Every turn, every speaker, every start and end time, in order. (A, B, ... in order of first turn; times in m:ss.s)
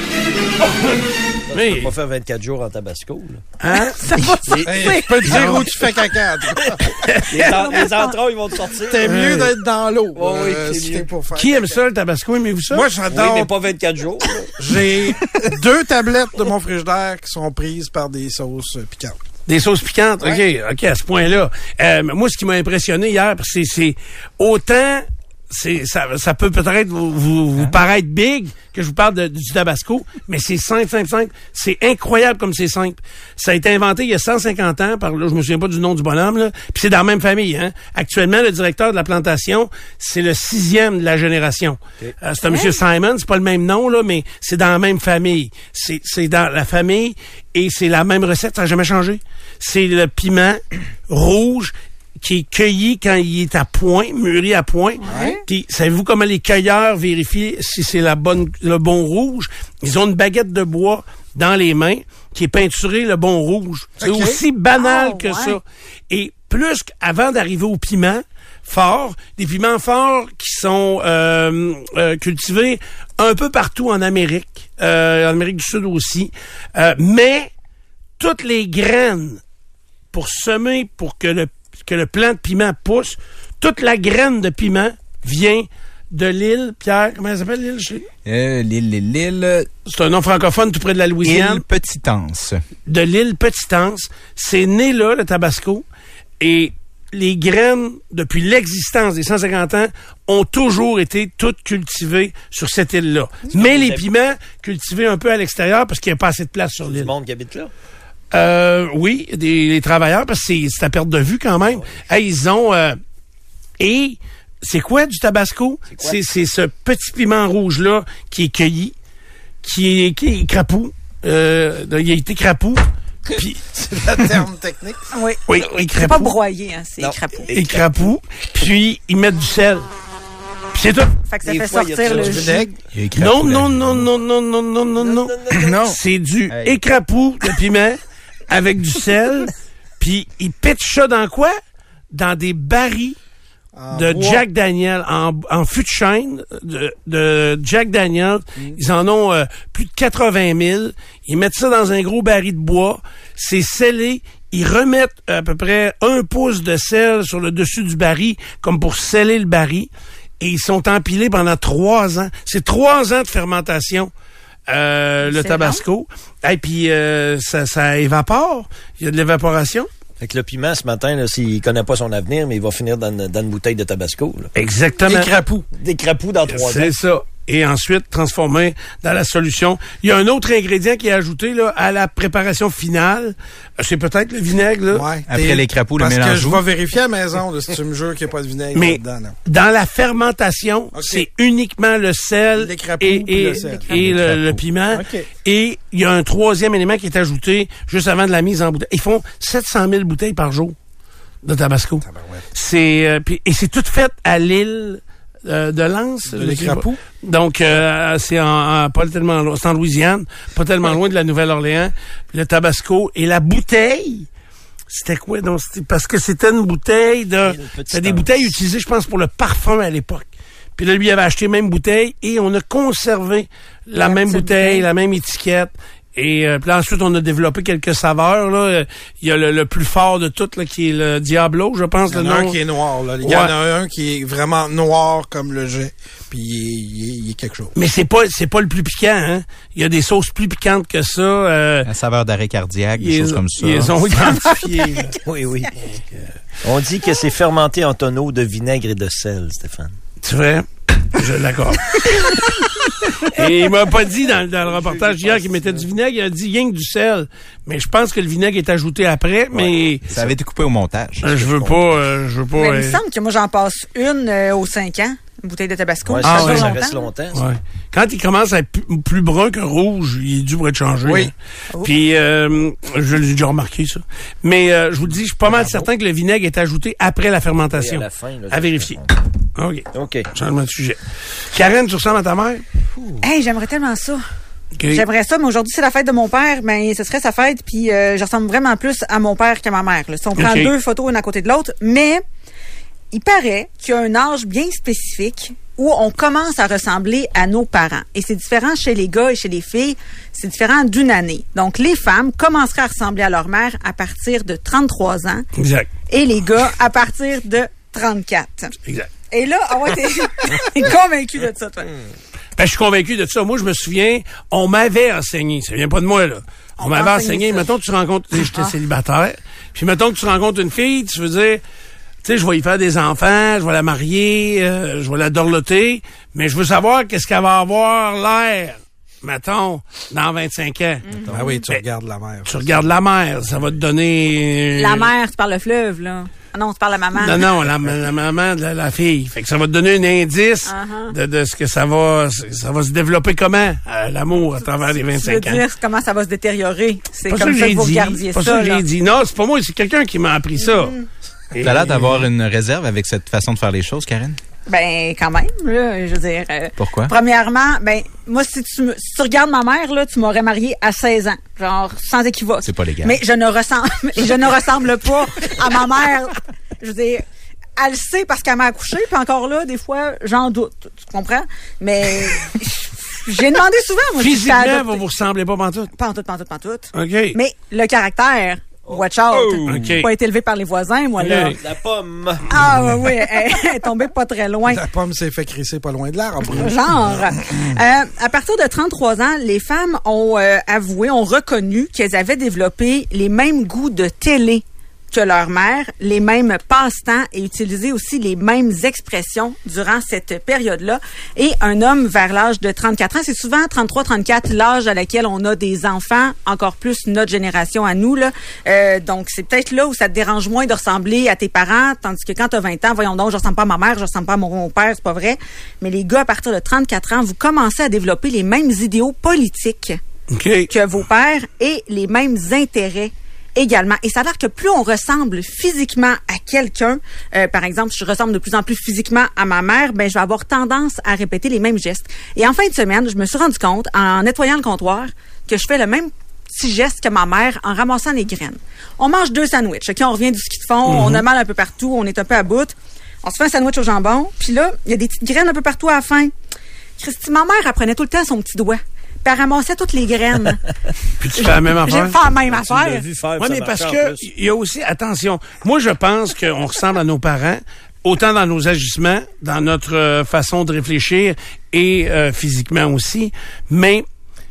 0:00.6-0:01.9 A
0:01.5-0:03.4 B
0:03.6-0:04.0 A
0:03.7-0:05.8 C
0:04.4-0:05.7 B
0:04.6-0:06.9 D
0:05.2-0:05.6 A
0:07.0-0:07.8 A
0:07.3-0:09.5 B
0:07.4-0:08.2 C
0:08.9-0:11.8 D
0:09.1-0:09.4 A
0:10.1-0:11.1 B
0:11.3-0:12.9 A
0:12.7-0:13.6 D
0:13.1-0:14.5 B
0:14.6-0:19.2 D
0:19.5-1:17.5 A
0:42.5-0:42.8 C
0:55.0-0:55.4 C
0:55.1-0:55.4 D
1:04.0-1:04.4 D
1:04.8-1:05.6 C
1:18.2-1:19.4 A
1:20.1-1:28.1 A
1:28.2-1:29.7 E
1:29.8-1:31.6 A
1:31.2-1:32.6 E
1:32.9-1:35.8 A
1:36.4-1:47.1 A
1:43.5-1:44.0 B
1:46.8-1:47.7 B
1:48.3-1:53.0 A
1:51.6-1:52.0 B
1:53.8-1:58.9 A
1:55.9-1:56.2 B
1:59.6-2:03.6 A
2:03.7-2:05.0 D
2:05.1-2:07.5 C
2:05.5-2:06.3 A
2:07.0-2:07.8 B
2:07.5-2:09.8 A
2:10.7-2:11.1 A
2:11.2-2:12.7 C
2:11.4-2:12.7 B
2:12.0-2:12.7 D
2:12.9-2:14.1 E
2:13.2-2:21.6 A
2:15.0-2:15.7 B
2:15.5-2:16.0 E
2:16.5-2:16.8 E
2:22.1-2:23.2 A
2:23.8-2:24.4 D
2:23.9-2:44.1 A
2:44.7-2:49.9 A
2:45.2-2:45.8 C
2:50.2-2:54.5 B
2:54.6-2:55.3 A
2:55.0-2:55.7 D
2:55.8-2:56.9 B
2:56.5-3:05.1 A
3:04.9-3:09.3 D
3:05.3-3:06.6 E
3:08.7-3:20.7 A
3:10.9-3:11.3 D
3:12.6-3:13.9 D
3:13.6-3:14.0 C
3:13.9-3:14.6 E
3:14.9-3:15.3 D
3:21.4-3:34.3 A
3:22.0-3:22.5 D
3:26.3-3:27.0 D
3:34.9-3:52.6 A
3:37.4-3:38.5 B
3:44.0-3:44.8 C
3:52.1-3:57.7 D
3:53.2-3:53.5 A
3:57.8-4:01.9 A
4:01.8-4:04.0 E
4:03.0-4:05.2 A
4:05.2-4:05.8 B
4:06.6-4:09.9 B
4:10.2-4:12.6 A
4:13.2-4:20.1 A
4:14.6-4:15.9 D
4:19.5-4:20.3 B
4:20.1-4:21.9 E
4:21.2-4:23.0 A
4:22.6-4:27.1 C
4:26.0-4:27.4 B
4:26.2-4:26.8 A
4:27.3-4:39.0 A
4:31.0-4:31.3 D
4:35.4-4:35.9 D
4:37.7-4:39.2 B
4:39.6-4:41.0 A
4:39.9-4:40.3 B
4:41.5-4:42.6 A
4:43.2-4:44.2 C
4:44.8-4:45.0 A
4:44.9-4:52.2 C
4:50.4-4:50.7 A
4:53.1-5:05.5 C
5:05.6-5:05.9 A
5:06.1-5:08.7 C
5:09.3-5:11.9 C
5:12.6-5:21.6 A
5:16.8-5:17.6 C
5:22.2-5:31.0 A
5:31.1-5:31.6 C
5:31.3-5:32.7 D
5:32.4-5:35.1 A
5:34.8-5:37.4 C
5:37.1-5:45.6 A
5:40.6-5:41.1 C
5:45.1-5:48.8 C
5:47.3-5:50.9 A
5:50.6-5:51.0 C
5:51.5-5:52.2 A
5:51.6-5:54.4 E
5:54.7-6:07.2 C
5:56.8-5:57.1 E
6:02.6-6:03.2 E
6:07.8-6:15.0 C
6:14.2-6:15.9 A
6:15.9-6:21.6 C
6:16.9-6:17.4 A
6:18.9-6:19.8 B
6:19.6-6:20.1 A
6:21.2-6:21.6 A
6:21.6-6:22.4 B
6:22.5-6:24.8 C
6:24.7-6:27.8 D
6:26.4-7:00.0 C
7:00.3-7:00.7 A
7:00.7-7:26.3 C
7:20.8-7:21.2 A
7:27.0-7:30.6 C
7:31.2-7:32.2 A
7:31.4-7:33.0 C
7:32.2-7:34.2 B
7:33.4-7:44.0 A